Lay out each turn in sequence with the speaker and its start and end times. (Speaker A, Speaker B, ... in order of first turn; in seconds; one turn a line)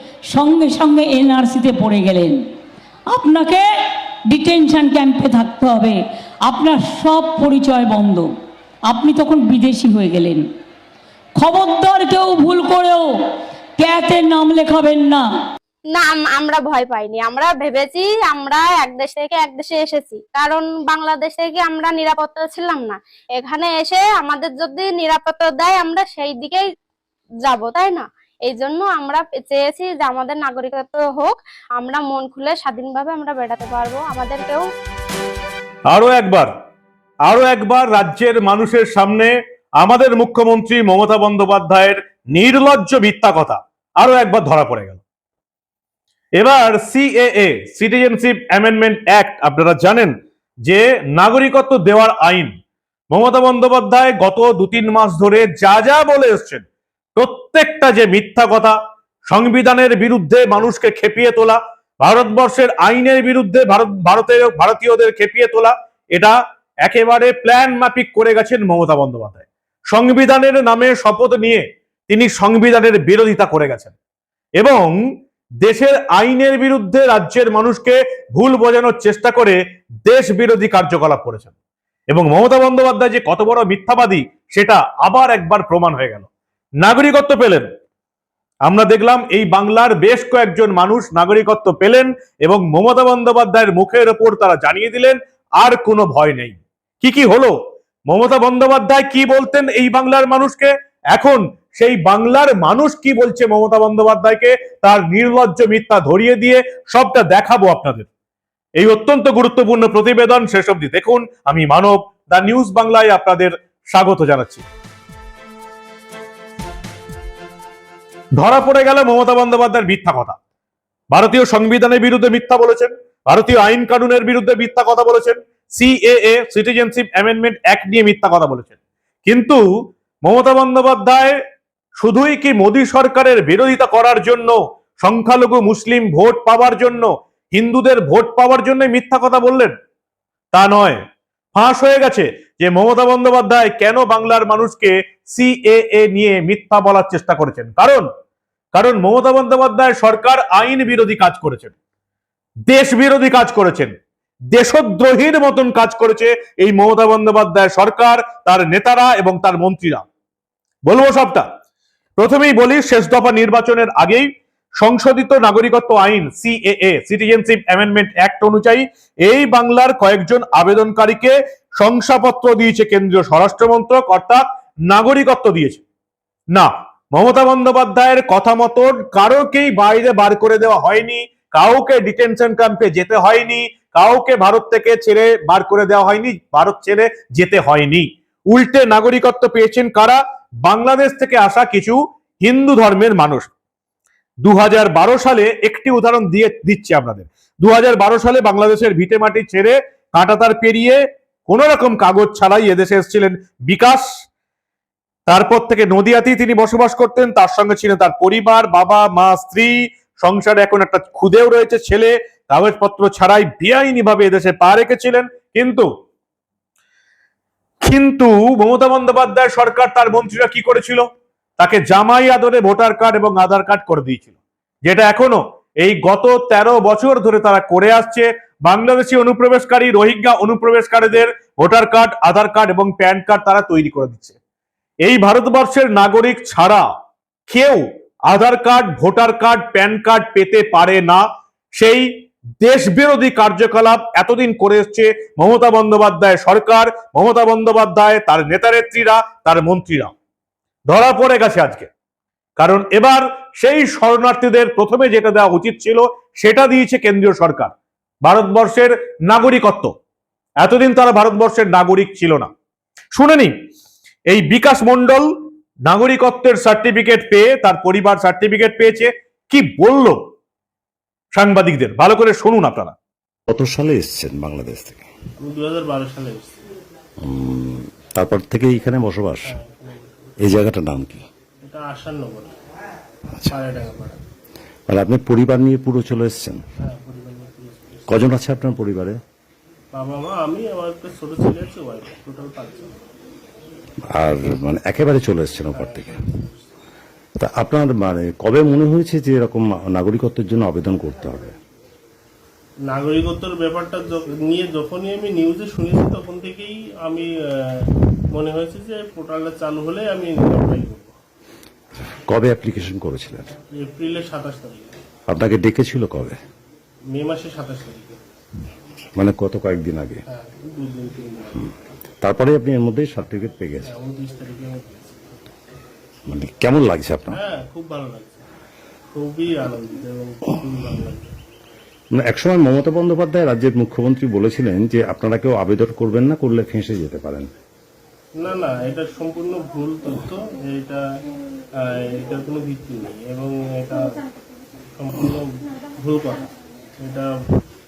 Speaker A: 0.3-2.4
Speaker A: 3.1-3.6
Speaker A: 4.3-8.3
Speaker A: 8.9-10.4
Speaker A: 11.4-13.1
Speaker A: 13.8-15.2
Speaker B: 15.9-26.6
Speaker B: 27.5-34.6
Speaker C: 35.9-36.5
Speaker C: 37.3-45.0
Speaker C: 46.4-52.5
Speaker C: 53.1-56.6
Speaker C: 57.2-58.8
Speaker C: 59.3-73.9
Speaker C: 74.6-75.0
Speaker C: 75.7-81.5
Speaker C: 82.1-86.3
Speaker C: 86.8-87.7
Speaker C: 88.7-97.5
Speaker C: 98.1-108.1
Speaker C: 108.8-114.6
Speaker C: 118.4-120.4
Speaker C: 121.1-128.7
Speaker C: 129.3-129.6
Speaker C: 130.2-131.4
Speaker C: 132.0-139.7
Speaker C: 140.5-141.0
Speaker C: 141.6-148.1
Speaker C: 148.7-151.7
Speaker C: 152.7-153.9
Speaker C: 154.5-160.0
Speaker C: 160.9-161.4
Speaker C: 162.2-164.3
Speaker C: 164.8-175.8
Speaker C: 176.5-193.5
Speaker C: 194.4-204.1
Speaker C: 205.3-215.9
Speaker C: 217.8-221.1
Speaker C: 221.6-224.3
Speaker C: 224.9-234.3
Speaker C: 235.0-236.9
Speaker C: 237.5-241.2
Speaker C: 241.8-242.1
Speaker C: 242.6-250.1
Speaker C: 250.9-251.9
Speaker C: 252.6-259.9
Speaker C: 260.6-262.5
Speaker C: 263.1-263.5
Speaker C: 264.3-265.3
Speaker C: 265.9-270.2
Speaker C: 271.4-272.9
Speaker D: 273.5-275.1
Speaker E: 275.4-276.6
Speaker D: 277.2-279.5
Speaker E: 279.4-280.4
Speaker D: 280.4-281.2
Speaker E: 281.6-282.6
Speaker E: 283.5-284.2
Speaker D: 284.9-286.6
Speaker E: 286.8-288.6
Speaker D: 288.1-289.2
Speaker E: 289.9-293.0
Speaker D: 294.1-296.1
Speaker E: 295.7-296.6
Speaker D: 297.4-301.6
Speaker E: 302.9-311.1
Speaker D: 312.3-313.5
Speaker E: 313.7-315.0
Speaker D: 315.3-316.4
Speaker E: 317.1-318.2
Speaker D: 319.2-320.2
Speaker E: 320.3-321.7
Speaker D: 322.2-323.9
Speaker E: 323.9-325.4
Speaker D: 326.3-327.4
Speaker E: 327.3-328.4
Speaker E: 329.1-331.3
Speaker D: 332.2-337.5
Speaker E: 338.4-341.0
Speaker E: 341.8-344.0
Speaker E: 345.0-346.5
Speaker E: 347.0-347.3